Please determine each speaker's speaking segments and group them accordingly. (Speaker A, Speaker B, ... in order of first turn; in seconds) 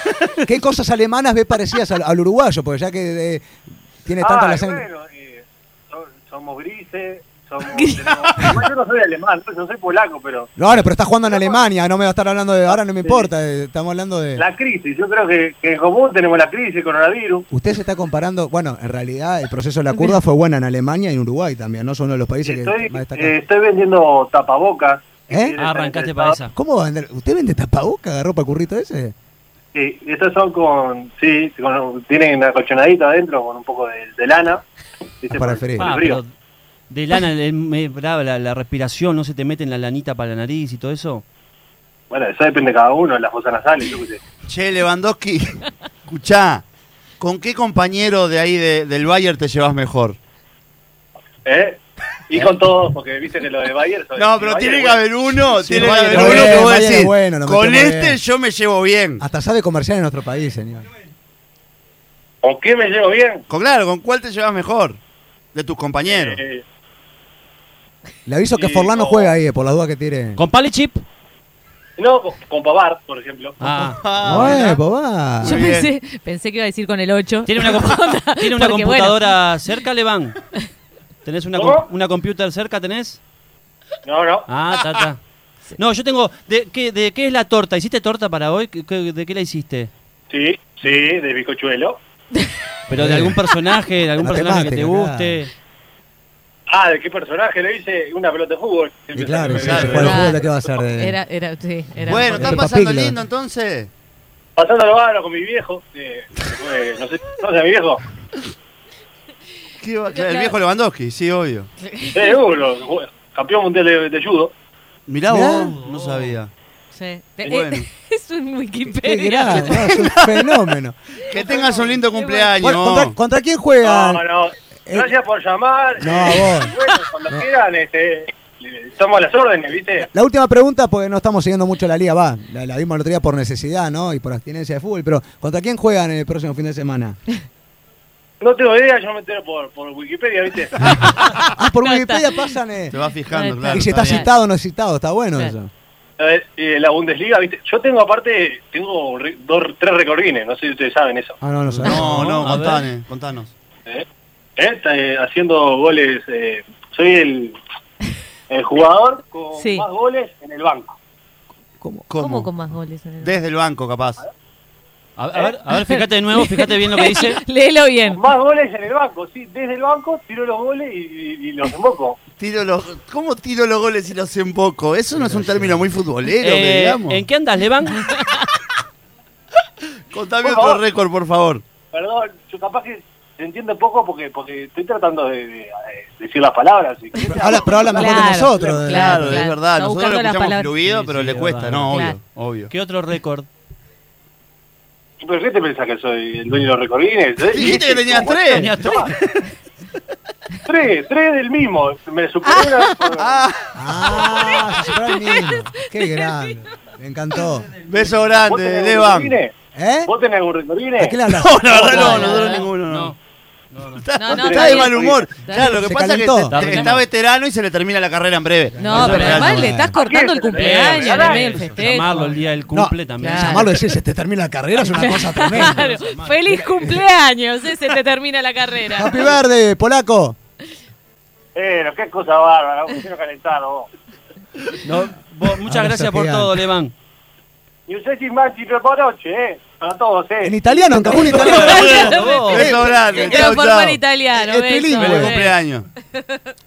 Speaker A: 0.4-4.8, 10.6-14.4, 17.5-23.3, 25.3-25.6, 26.5-29.1, 35.3-35.9, 55.6-58.2, 59.2-60.9, 68.2-70.4, 73.7-75.6, 92.9-93.5, 94.2-95.4, 99.1-101.2, 102.1-103.1, 115.3-115.8, 119.0-121.0, 122.6-124.2, 126.0-126.8, 130.0-137.2, 141.2-142.9, 143.6-145.7, 151.4-152.2, 161.8-162.1, 175.1-175.8, 187.4-189.5, 203.7-207.7, 209.7-210.1, 211.0-212.4, 215.5-216.8, 218.7-219.9, 222.7-227.0, 228.9-230.3, 235.7-236.6, 240.4-242.9, 244.3-245.4
Speaker B: 4.2-10.5, 11.3-11.5, 14.4-17.4, 22.4-26.4, 29.7-34.6, 35.2-36.2, 42.1-44.2, 51.4-51.8, 52.3-55.0, 62.4-63.4, 66.1-66.6, 68.5-69.3, 72.0-73.6, 81.5-81.9, 84.0-84.4, 90.3-92.0, 96.7-100.4, 104.6-108.0, 112.1-114.5, 123.8-130.0, 138.4-140.7, 146.2-151.4, 154.6-157.6, 158.5-160.9, 168.1-172.2, 180.4-180.8, 181.9-188.8, 195.2-199.0, 200.7-203.3, 208.4-209.5, 210.1-211.1, 214.3-215.2, 220.0-221.5, 231.6-233.9, 237.9-240.5
Speaker C: 7.6-8.1, 75.4-79.4, 99.9-102.7, 110.1-110.6, 111.8-112.4, 116.9-120.0, 121.3-122.7, 141.6-142.6, 143.3-144.3, 159.5-159.9, 162.2-163.4, 165.7-168.2, 178.0-178.5, 187.2-190.7, 191.9-192.2, 204.2-206.6, 211.7-212.7, 214.2-215.7, 218.8-222.4, 223.2-223.7, 224.8-229.3, 240.9-245.5, 246.1-246.4
Speaker D: 8.0-8.3, 44.4-46.6, 47.2-50.2, 52.3-52.9, 54.1-59.2, 63.5-65.0, 65.5-66.4, 73.8-74.8, 75.4-75.9, 99.5-100.3, 102.0-103.9, 109.8-111.7, 115.1-116.5, 117.4-117.9, 119.5-120.4, 121.2-123.1, 142.9-144.2, 151.8-153.5, 162.1-162.5, 163.2-164.2, 172.3-177.2, 180.1-181.6, 188.8-192.7, 197.4-199.5, 203.2-204.6, 207.8-209.4, 211.3-213.1, 213.9-219.7, 241.6-244.0, 245.0-245.9
Speaker E: 25.5-26.5, 35.7-36.3, 36.9-41.2, 56.1-56.6, 70.3-71.0, 73.6-74.0, 77.4-80.4, 81.2-83.2, 84.5-85.2, 85.7-89.9, 92.9-95.5, 115.5-116.4, 151.7-152.9, 165.2-167.4, 176.3-178.1, 190.8-192.0, 192.7-193.5, 198.4-199.1, 212.8-213.2, 213.7-214.1, 216.5-217.1, 218.9-219.5, 220.5-223.7, 225.5-226.3, 234.8-236.9, 241.1-242.8